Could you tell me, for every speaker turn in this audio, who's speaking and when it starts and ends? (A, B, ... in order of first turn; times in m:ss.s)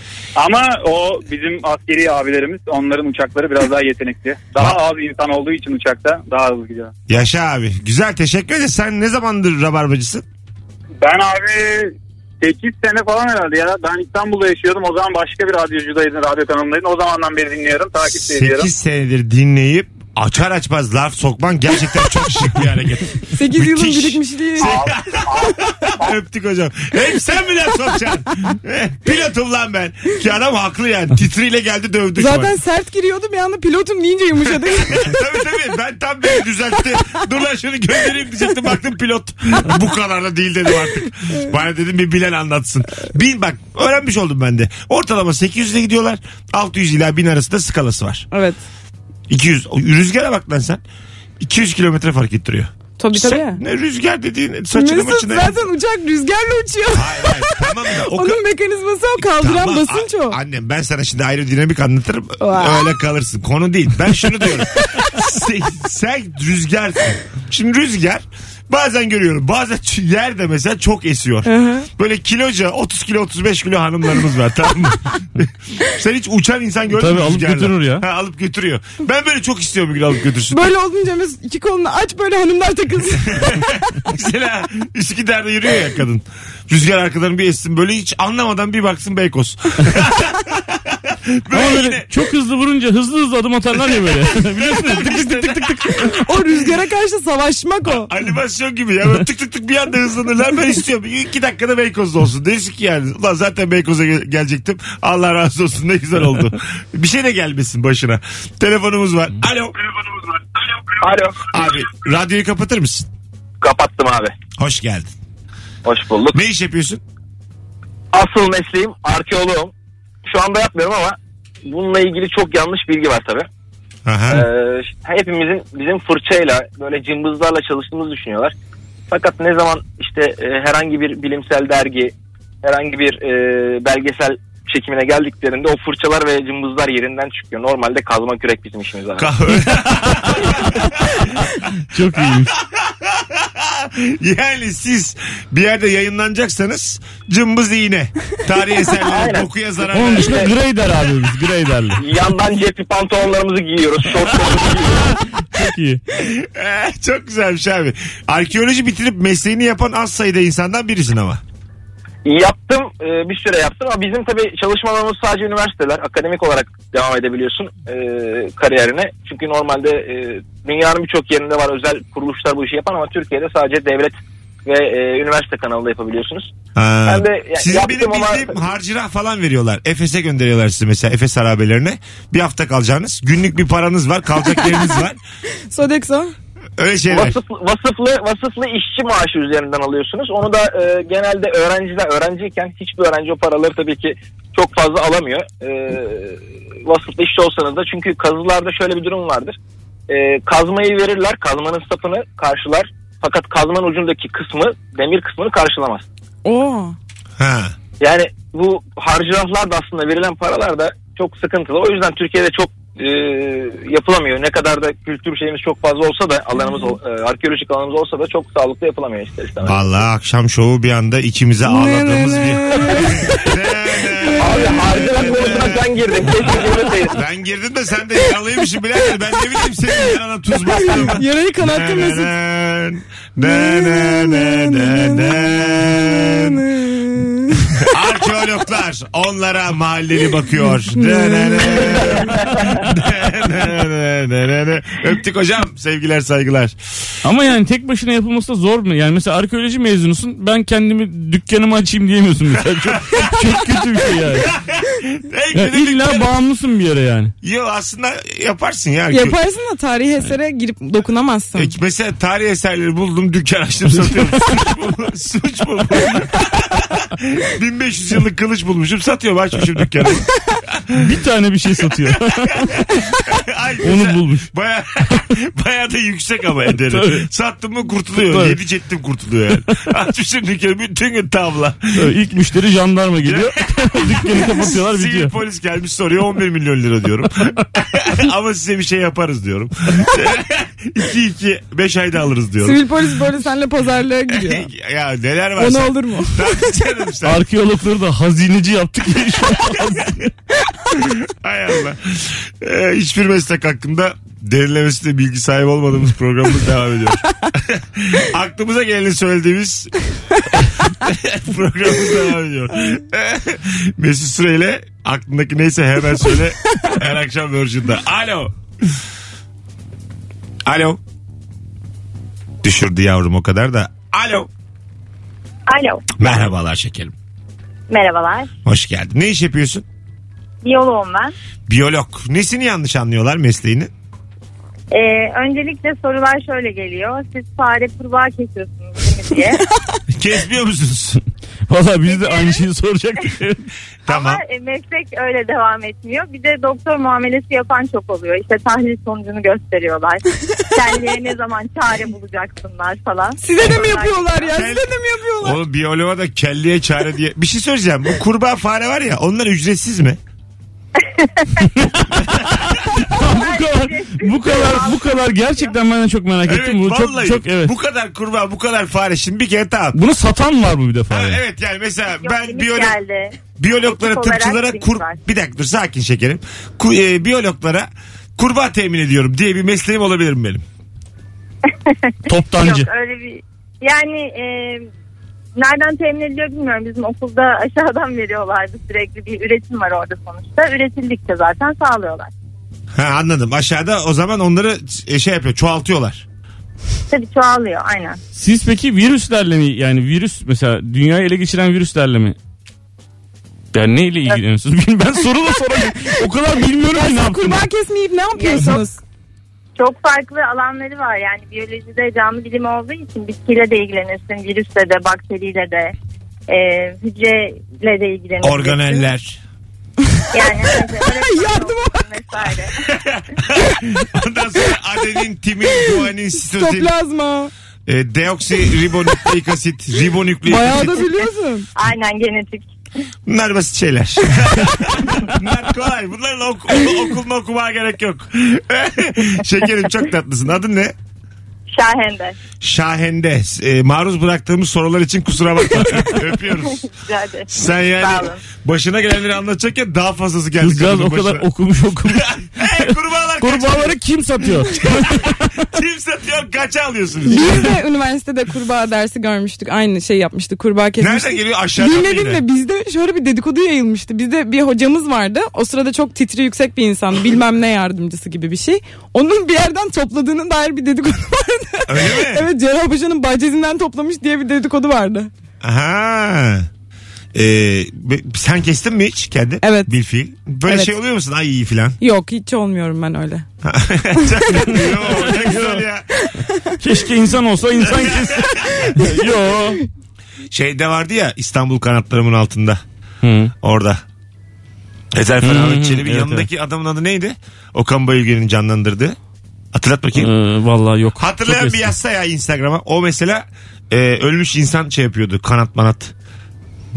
0:00.4-0:06.9 A
0:07.1-0:10.2 B
0:11.0-0:18.7 A
0:18.0-0:32.5 B
0:23.3-0:24.9 C
0:24.6-0:26.1 A
0:32.2-0:35.2 C
0:34.4-0:48.3 B
0:48.3-0:48.6 C
0:49.3-0:50.8 B
0:51.4-0:55.5 B
0:53.0-0:53.6 C
0:54.7-1:00.4 C
0:56.9-0:58.4 B
0:59.2-1:20.7 B
1:02.4-1:02.9 C
1:04.8-1:05.1 C
1:11.4-1:11.9 C
1:17.0-1:18.0 D
1:20.5-1:23.8 C
1:23.1-1:32.1 B
1:31.5-1:35.9 D
1:33.9-1:36.6 B
1:36.0-1:38.1 C
1:37.8-1:49.9 B
1:51.0-1:51.5 E
1:51.4-1:53.1 B
1:53.6-1:54.3 E
1:54.6-1:55.1 B
1:55.8-1:56.4 E
1:56.3-1:57.0 B
1:58.1-1:59.7 E
2:00.2-2:03.5 E
2:04.0-2:04.4 B
2:04.3-2:08.5 E
2:09.1-2:19.3 E
2:19.2-2:30.5 B
2:21.9-2:22.5 D
2:29.0-2:30.5 E
2:29.9-2:32.0 D
2:32.0-2:35.1 E
2:35.4-2:36.0 D
2:36.1-2:41.4 B
2:42.2-2:56.5 E
2:56.7-3:05.2 B
2:57.0-2:58.6 E
3:04.5-3:04.9 C
3:05.7-3:06.3 C
3:06.8-3:07.4 B
3:07.1-3:19.6 E
3:20.1-3:26.0 E
3:26.4-3:27.0 C
3:27.4-3:27.7 B
3:28.0-3:39.8 E
3:36.6-3:36.9 C
3:39.6-3:45.8 B
3:41.6-3:43.5 C
3:44.0-3:44.8 C
3:44.4-3:47.2 E
3:47.1-3:56.6 B
3:50.6-3:52.3 C
3:53.4-3:57.9 C
3:57.8-4:06.8 B
4:00.9-4:02.3 C
4:07.2-4:14.5 D
4:12.9-4:16.3 B
4:15.5-4:17.3 D
4:17.4-4:19.4 B
4:19.1-4:21.7 C
4:21.5-4:31.1 B
4:23.9-4:24.4 D
4:30.9-4:32.8 D
4:32.1-4:42.1 B
4:33.8-4:34.5 D
4:36.9-4:37.2 D
4:38.2-4:38.6 D
4:41.9-4:45.3 D
4:43.2-4:53.1 B
4:52.6-4:54.7 C
4:54.3-4:57.4 B
4:55.6-4:56.7 C
4:57.2-5:00.2 D
4:59.6-5:00.1 B
5:00.9-5:09.9 B
5:10.8-5:18.9 B
5:20.6-5:21.0 B
5:22.6-5:24.5 B
5:25.7-5:26.3 F
5:26.2-5:27.1 B
5:27.9-5:28.5 F
5:28.6-5:29.8 B
5:30.6-5:31.3 F
5:31.7-5:33.9 B
5:34.9-5:39.6 F
5:40.1-5:41.2 B
5:41.7-5:43.7 D
5:42.0-5:42.7 F
5:44.0-5:44.4 B
5:44.1-5:54.6 F
5:53.4-5:55.6 C
5:54.5-5:54.9 B
5:55.4-6:00.2 B
6:01.0-6:01.6 F
6:01.7-6:07.7 D
6:03.1-6:05.8 F
6:06.4-6:10.0 B
6:09.9-6:11.4 D
6:11.1-6:12.9 B
6:12.2-6:15.2 F
6:13.6-6:20.6 B
6:21.9-6:24.9 F
6:22.3-6:22.9 D
6:25.6-6:32.3 F
6:32.9-6:36.2 B
6:37.1-6:38.2 F
6:38.3-6:42.4 D
6:43.7-6:47.7 D
6:46.8-6:49.0 C
6:48.3-6:48.9 F
6:49.8-6:55.9 F
6:56.5-6:59.1 F
6:58.4-6:59.4 B
7:00.3-7:02.7 F
7:01.0-7:02.0 C
7:02.8-7:06.9 B
7:06.4-7:07.5 C
7:07.9-7:11.0 B
7:10.4-7:11.7 C
7:11.8-7:12.7 F
7:13.2-7:20.9 B
7:21.7-7:22.4 F
7:22.6-7:26.8 B
7:26.6-7:28.4 F
7:27.5-7:31.4 B
7:30.6-7:35.6 D
7:32.0-7:37.7 B
7:37.3-7:55.3 C
7:41.0-7:42.4 B
7:51.9-7:52.5 B
7:55.6-7:56.7 B
7:57.3-8:02.0 B
7:59.6-7:59.9 C
8:00.6-8:00.9 C
8:02.0-8:03.4 C
8:03.6-8:06.0 B
8:04.7-8:05.8 D
8:06.8-8:09.8 D
8:07.8-8:09.0 B
8:10.5-8:12.8 B
8:13.2-8:13.5 D
8:13.6-8:14.0 B
8:15.1-8:19.2 B
8:15.4-8:16.5 D
8:19.7-8:20.3 B
8:20.1-8:21.9 D
8:21.2-8:26.1 B